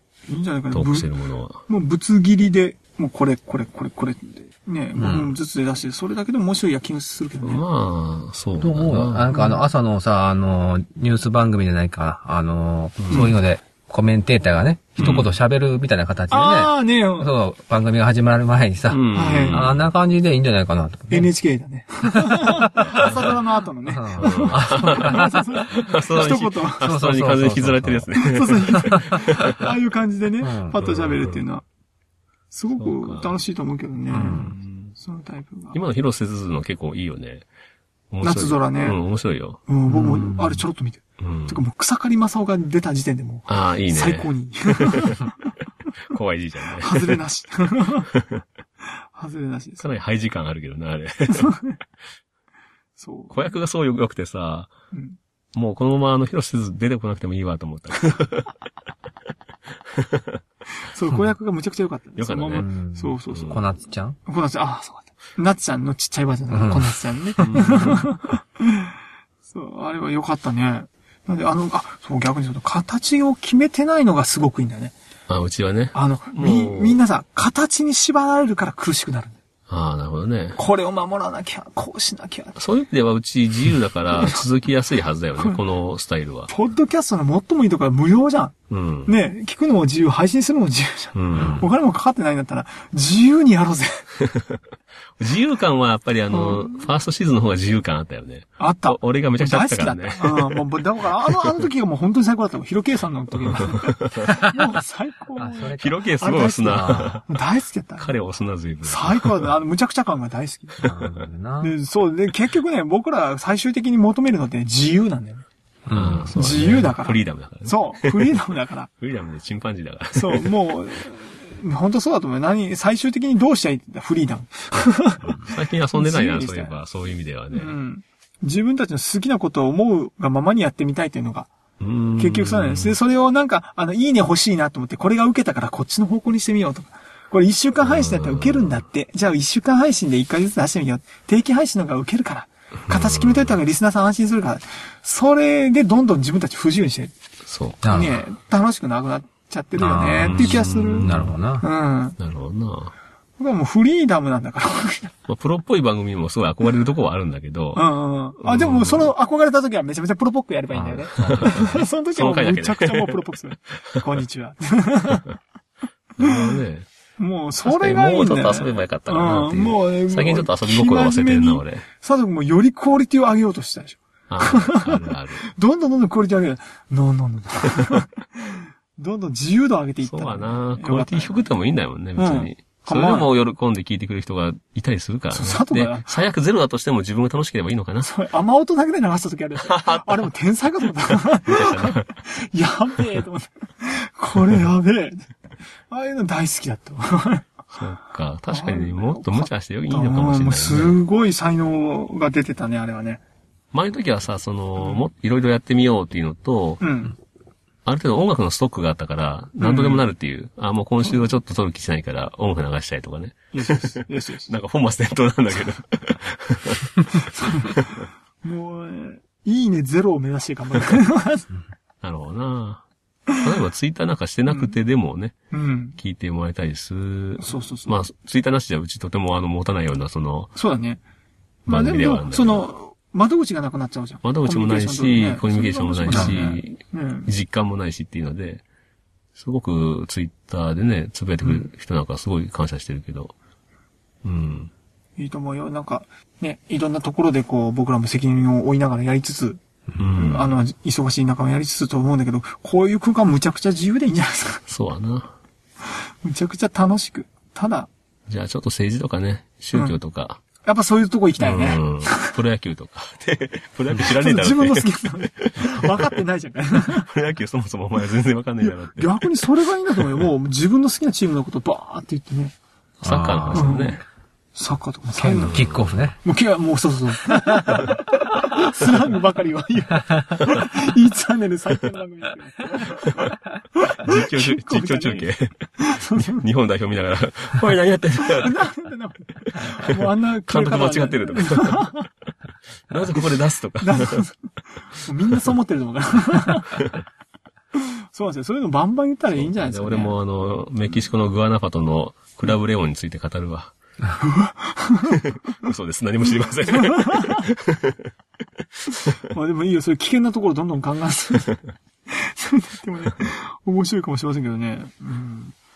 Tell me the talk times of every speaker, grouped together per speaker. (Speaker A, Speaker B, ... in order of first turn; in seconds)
Speaker A: 0.3-1.1, 1.7-7.6, 9.3-9.6, 16.3-17.3, 19.1-19.6, 21.1-26.9, 28.1-31.6, 32.5-35.8, 38.2-39.0, 39.7-45.5, 46.8-48.1, 49.1-49.9, 51.3-51.8, 53.0-53.5, 54.9-55.2, 60.8-63.6, 64.3-68.9, 69.5-74.9, 75.9-79.4, 80.5-82.6, 84.1-84.4, 86.5-88.5, 89.0-94.1, 96.3-96.9, 98.6-108.2, 108.8-110.9, 111.6-115.4, 116.3-118.9, 120.1-125.3, 125.9-126.8, 127.5-131.5, 132.2-147.1, 147.8-151.1, 151.6-152.2, 153.4-155.1, 157.7-165.3, 166.2-166.6, 167.2-181.5, 182.2-183.3, 185.3-186.1, 188.0-195.3, 195.9-197.5, 198.5-203.2, 204.8-205.0, 206.8-207.1, 209.6-210.0, 213.5-214.6, 217.4-217.8, 218.4-221.4, 224.5-224.7, 225.5-226.0, 227.4-228.0, 230.6-231.0, 231.7-237.3, 245.2-249.6, 250.1-254.6, 256.2-257.9, 259.7-260.0, 260.6-262.4, 264.0-267.1, 268.6-272.5, 273.5-274.0, 274.6-275.6, 276.2-286.4, 288.2-292.1, 293.8-294.3, 294.9-296.8, 297.7-300.2, 304.2-305.2, 306.7-307.5, 309.3-315.5
Speaker B: 0.7-1.6, 7.4-9.3, 13.0-13.3, 15.0-15.3, 18.9-19.9, 24.2-29.5, 30.8-31.4, 32.8-33.3, 34.4-34.9, 35.7-37.5, 38.1-39.6, 41.2-41.6, 43.5-45.2, 46.0-47.2, 48.1-48.4, 49.8-51.5, 53.3-54.7, 55.5-58.5, 59.9-60.4, 62.2-62.6, 67.4-68.1, 75.3-77.0, 79.7-80.6, 82.5-86.5, 88.7-89.2, 91.1-91.6, 94.3-94.6, 95.2-100.6, 101.3-101.6, 103.4-104.3, 105.8-107.2, 108.0-109.5, 115.9-118.4, 119.0-120.5, 125.2-127.7, 131.8-133.0, 137.8-138.8, 142.9-143.5, 147.4-147.8, 150.2-151.3, 152.2-152.9, 155.3-157.8, 158.4-159.1, 160.9-163.2, 166.2-166.9, 167.6-171.8, 174.3-175.4, 180.0-188.1, 189.6-190.2, 191.4-192.1, 197.7-201.0, 203.7-206.8, 207.8-218.1, 222.0-222.8, 223.4-225.3, 226.0-230.5, 231.7-232.7, 234.2-238.6, 239.3-243.3, 244.2-244.7, 249.9-250.6, 254.7-255.3, 258.3-260.4, 261.4-266.1, 266.8-269.2, 273.0-274.0, 275.4-276.0, 283.0-283.3, 284.0-288.7, 289.4-291.9, 292.9-294.2, 296.7-297.0, 299.3-303.7, 305.1-308.1, 308.9-309.1
Speaker C: 5.0-5.3, 8.6-21.3, 22.1-23.1, 23.9-25.4, 26.2-28.1, 28.8-29.2, 30.4-30.8, 34.1-34.5, 39.9-40.6, 62.5-64.2, 66.5-66.9, 91.3-91.7, 105.4-107.2, 110.8-111.7, 115.8-116.3, 147.8-148.1, 149.8-151.7, 160.8-161.7, 273.0-273.8, 275.1-276.2